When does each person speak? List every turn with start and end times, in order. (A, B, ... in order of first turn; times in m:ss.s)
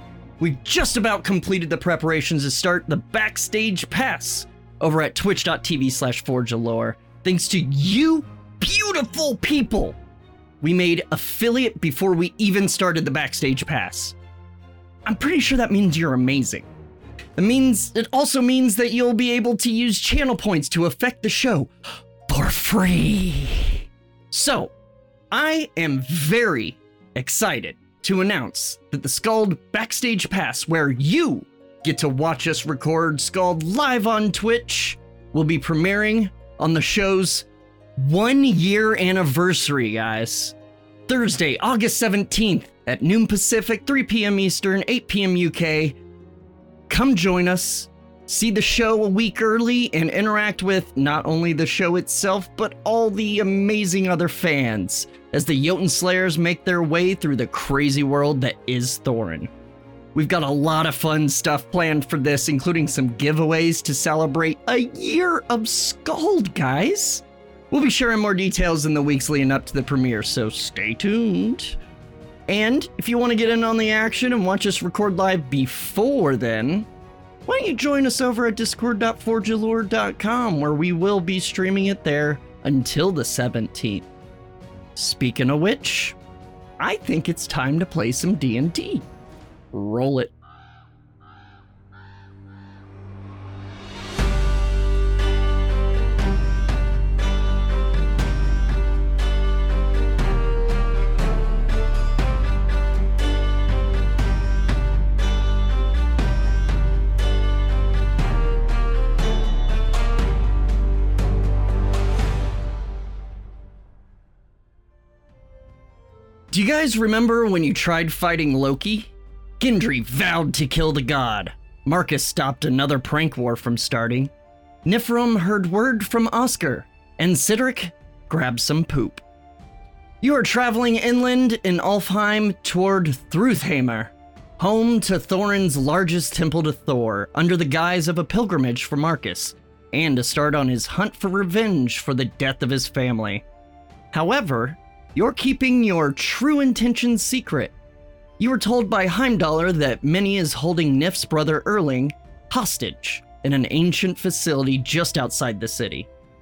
0:00.4-0:10.0 A
0:10.6-0:14.1 A
0:15.0-0:16.7 A
0:17.4-0:21.7 A
0:22.3-0:24.7 A
0:25.3-0:40.5 A
0:41.1-0:46.0 A
0:46.9-0:59.5 A
1:00.1-1:11.8 A
1:12.5-1:16.9 A
1:17.4-1:24.1 A
1:25.0-1:26.2 A
1:26.8-1:29.0 A
1:29.7-1:30.3 A
1:56.5-2:04.3 A
2:04.8-2:09.2 A
2:10.2-2:23.4 A
2:24.1-2:27.7 A
2:28.4-2:36.1 A